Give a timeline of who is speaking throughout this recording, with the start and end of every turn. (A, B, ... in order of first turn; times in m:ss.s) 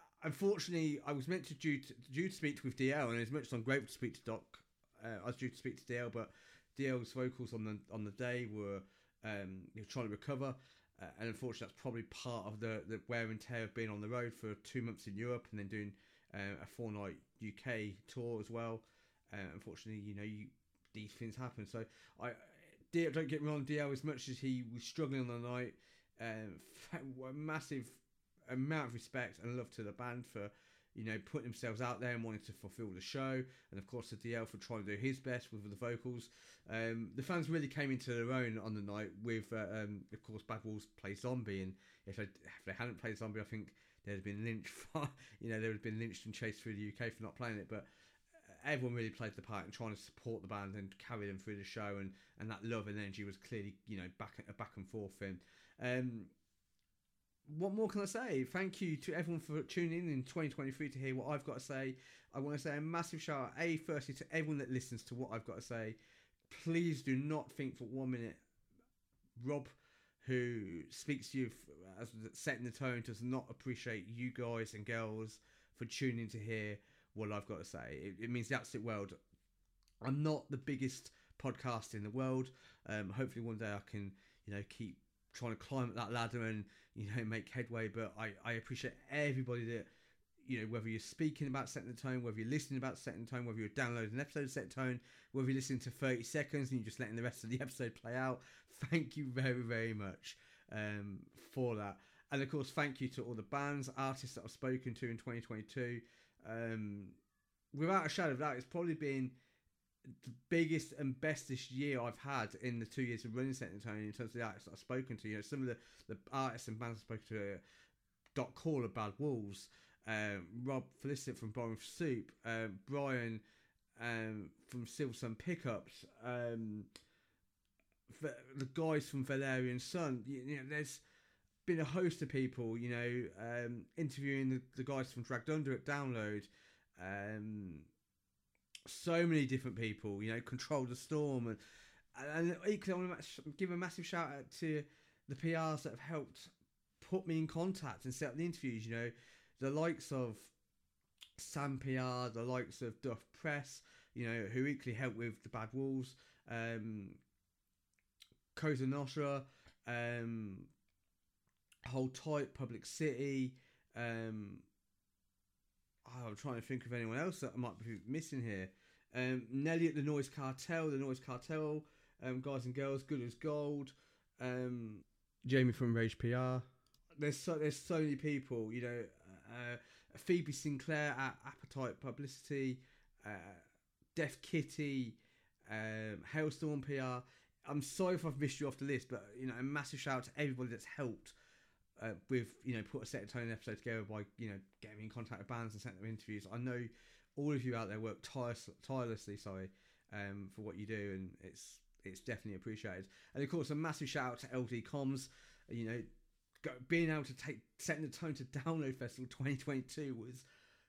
0:00.2-0:47.9 A
0:48.5-0:56.3 A
0:57.5-1:06.0 A
1:06.5-1:08.4 A
1:09.4-1:19.2 A
1:20.0-1:29.9 A
1:30.4-1:47.2 A
1:47.7-1:49.3 A
1:50.2-1:57.6 A
1:58.4-2:03.4 A
2:04.0-2:06.9 A
2:08.1-2:11.0 A
2:11.7-2:17.9 A
2:18.9-2:21.6 A
2:22.2-2:30.5 A
2:31.4-2:37.2 A
2:38.6-2:40.7 A
2:41.8-2:44.6 A
2:46.1-2:56.7 A
2:57.2-3:03.6 A
3:04.2-3:11.3 A
3:12.0-3:26.1 A
3:26.6-3:30.4 A